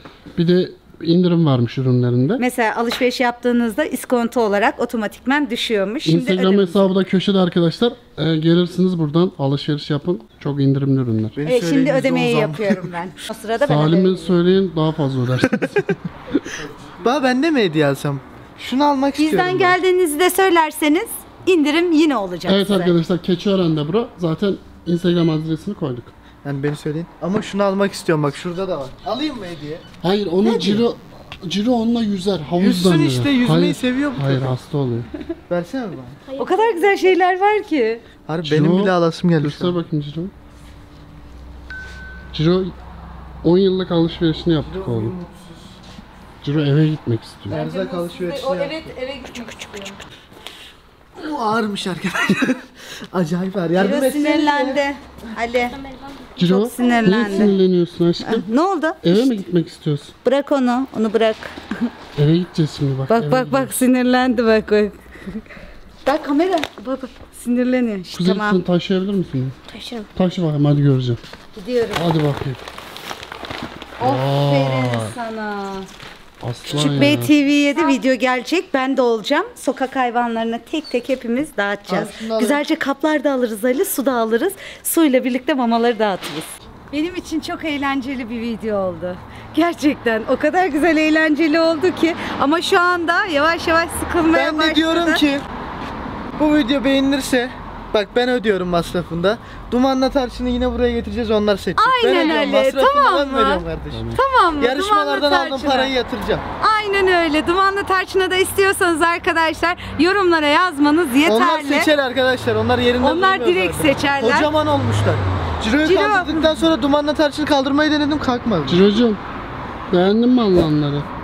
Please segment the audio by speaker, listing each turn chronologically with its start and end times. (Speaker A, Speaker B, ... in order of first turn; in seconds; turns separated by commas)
Speaker A: 0.4-2.4, Speaker B: 2.4-6.9, Speaker A: 6.0-11.4, Speaker C: 11.4-13.0, Speaker B: 11.5-14.4, Speaker A: 13.6-16.0, Speaker C: 16.9-19.8, Speaker B: 19.2-23.0, Speaker A: 22.5-26.1, Speaker C: 26.4-29.8, Speaker A: 30.0-35.1, Speaker C: 30.4-30.8, Speaker C: 32.6-34.5, Speaker C: 35.5-36.2, Speaker D: 36.3-37.2, Speaker B: 36.4-38.0, Speaker C: 38.3-39.8, Speaker A: 38.4-40.3, Speaker A: 42.3-42.8, Speaker A: 43.4-45.1, Speaker C: 44.6-45.7, Speaker A: 46.4-47.6, Speaker C: 47.5-48.9, Speaker B: 47.5-50.0, Speaker D: 49.5-49.9, Speaker C: 51.2-54.8, Speaker B: 53.8-55.8, Speaker D: 55.6-57.6, Speaker A: 56.4-58.5, Speaker B: 56.4-57.6, Speaker B: 58.2-59.4, Speaker A: 59.0-60.1, Speaker B: 60.2-61.9, Speaker A: 62.1-63.9, Speaker B: 63.1-65.4, Speaker B: 66.0-68.6, Speaker A: 68.1-69.5, Speaker D: 69.7-70.1, Speaker A: 70.2-71.2, Speaker B: 71.5-72.1, Speaker A: 72.0-72.6, Speaker B: 74.0-75.9, Speaker A: 74.0-75.1, Speaker A: 76.4-77.3, Speaker B: 76.7-95.2, Speaker C: 76.7-77.1, Speaker C: 81.9-82.6, Speaker C: 94.3-95.5, Speaker C: 96.4-104.0, Speaker B: 101.8-105.9, Speaker A: 103.9-104.2, Speaker C: 104.6-106.5, Speaker B: 106.6-111.9, Speaker C: 111.2-118.9, Speaker B: 113.0-114.5, Speaker B: 115.8-116.6, Speaker A: 118.7-119.2, Speaker A: 119.9-121.1